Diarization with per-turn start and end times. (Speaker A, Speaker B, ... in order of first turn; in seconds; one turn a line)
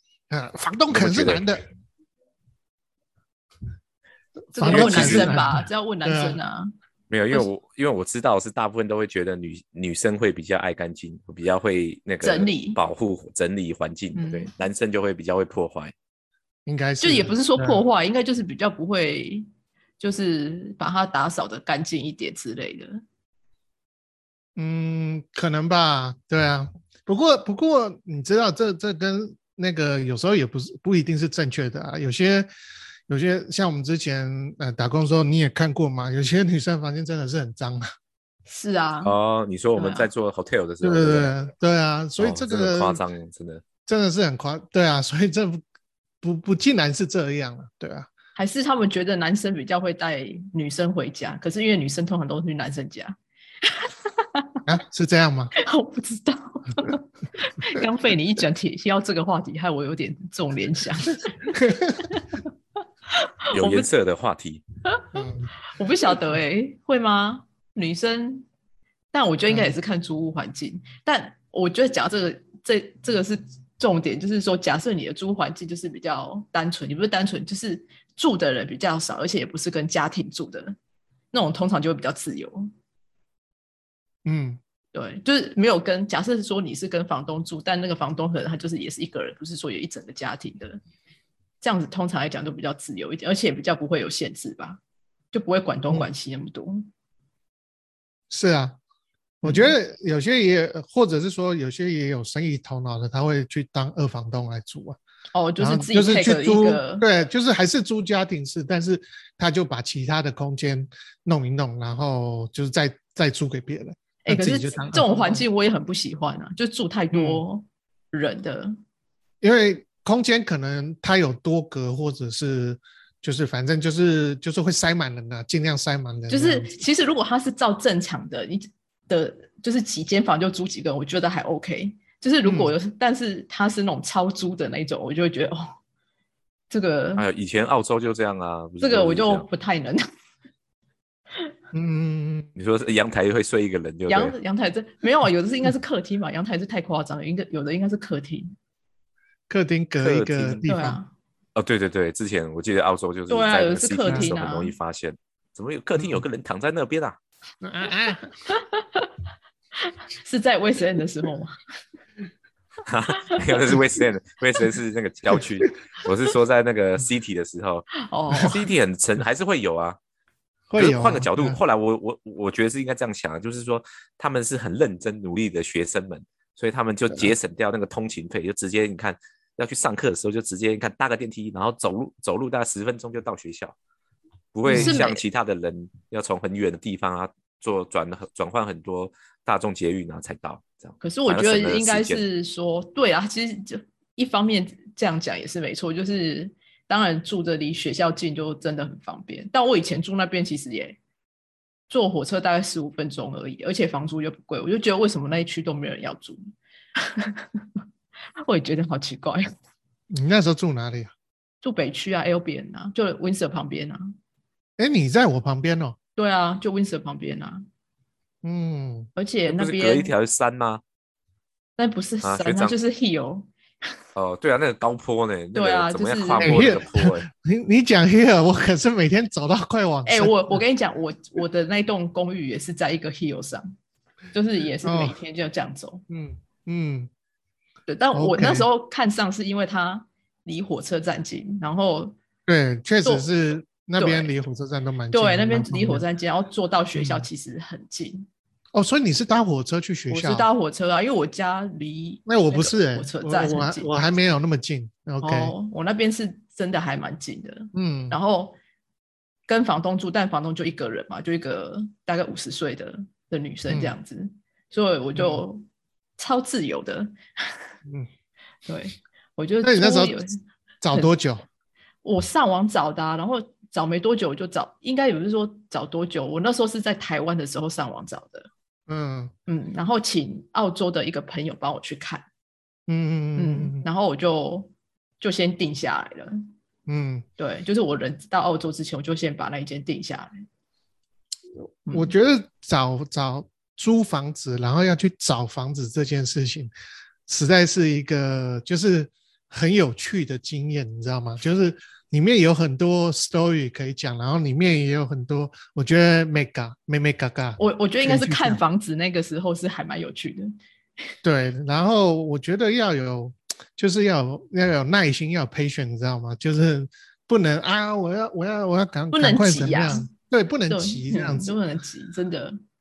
Speaker A: 0.3-1.6
Speaker B: 0.9-1.5
Speaker C: 4.5-6.7
Speaker A: 4.6-6.4
Speaker B: 4.7-5.4
Speaker B: 7.1-15.9
Speaker C: 12.2-12.8
Speaker C: 14.2-14.5
Speaker A: 16.7-17.8
Speaker C: 17.0-19.5
Speaker C: 20.0-23.0
Speaker A: 24.6-32.5
Speaker A: 33.1-37.9
Speaker C: 38.5-39.1
Speaker B: 39.0-41.3
Speaker C: 39.8-40.1
Speaker A: 40.8-43.0
Speaker B: 42.2-43.6
Speaker A: 43.9-45.6
Speaker A: 46.2-48.1
Speaker C: 48.4-54.6
Speaker A: 54.7-55.5
Speaker C: 55.6-62.5
Speaker A: 61.5-62.0
Speaker C: 63.1-63.9
Speaker B: 63.5-64.6
Speaker C: 64.9-65.2
Speaker A: 65.1-65.5
Speaker C: 65.7-68.5
Speaker C: 69.1-80.8
Speaker A: 69.5-69.7
Speaker C: 81.3-82.7
Speaker A: 84.3-84.6
Speaker C: 84.9-90.8
Speaker C: 91.6-94.8
Speaker C: 95.3-96.9
Speaker A: 98.3-98.8
Speaker A: 99.4-105.0
Speaker C: 99.4-99.7
Speaker C: 105.3-107.1
Speaker A: 105.6-115.5
Speaker C: 114.2-118.8
Speaker A: 117.1-117.4
Speaker A: 119.4-126.7
Speaker C: 126.3-135.8
Speaker A: 132.4-132.7
Speaker C: 136.7-137.3
Speaker B: 137.2-139.5
Speaker C: 138.8-140.1
Speaker A: 141.7-142.5
Speaker B: 142.6-144.4
Speaker C: 144.1-148.6
Speaker A: 149.5-151.0
Speaker B: 150.0-150.7
Speaker C: 150.7-151.1
Speaker B: 151.6-157.2
Speaker C: 153.3-154.7
Speaker A: 156.0-156.2
Speaker A: 157.6-158.3
Speaker C: 158.5-159.1
Speaker C: 159.8-161.6
Speaker B: 162.9-167.9
Speaker C: 168.0-168.7
Speaker B: 168.4-170.0
Speaker A: 170.7-171.6
Speaker B: 170.8-183.8
Speaker B: 184.5-192.2
Speaker C: 184.7-185.2
Speaker A: 184.7-185.0
Speaker C: 191.0-201.0
Speaker C: 201.9-207.7
Speaker C: 208.4-209.5
Speaker A: 210.2-211.1
Speaker C: 211.6-214.1
Speaker A: 214.8-216.0
Speaker C: 216.2-217.7
Speaker A: 218.4-219.1
Speaker C: 219.2-220.1
Speaker B: 219.5-220.8
Speaker C: 221.8-224.0
Speaker B: 222.2-222.8
Speaker B: 224.2-227.3
Speaker C: 225.6-226.6
Speaker A: 226.4-230.6
Speaker C: 230.1-233.7
Speaker C: 234.3-236.0
Speaker A: 234.8-235.2
Speaker A: 236.1-237.1
Speaker C: 237.9-242.2
Speaker A: 238.1-238.7
Speaker A: 242.5-246.0
Speaker C: 244.0-244.3
Speaker C: 245.1-248.3
Speaker A: 246.9-247.3
Speaker A: 248.7-250.5
Speaker C: 250.1-253.9
Speaker A: 252.3-255.5
Speaker C: 255.2-258.6
Speaker A: 257.7-258.2
Speaker C: 259.5-265.6
Speaker A: 263.7-264.0
Speaker A: 265.1-265.4
Speaker C: 266.2-267.7
Speaker C: 268.7-270.4
Speaker A: 269.6-270.2
Speaker A: 270.8-271.4
Speaker C: 272.0-278.5
Speaker A: 278.9-279.3
Speaker C: 279.5-282.3
Speaker A: 282.9-283.9
Speaker C: 283.4-284.7
Speaker C: 285.2-286.5
Speaker A: 286.9-287.3
Speaker C: 287.4-290.4
Speaker A: 291.7-296.7
Speaker C: 291.9-292.1
Speaker A: 297.3-308.6
Speaker C: 307.6-310.5
Speaker A: 311.2-321.6
Speaker C: 319.1-320.1
Speaker C: 320.7-322.6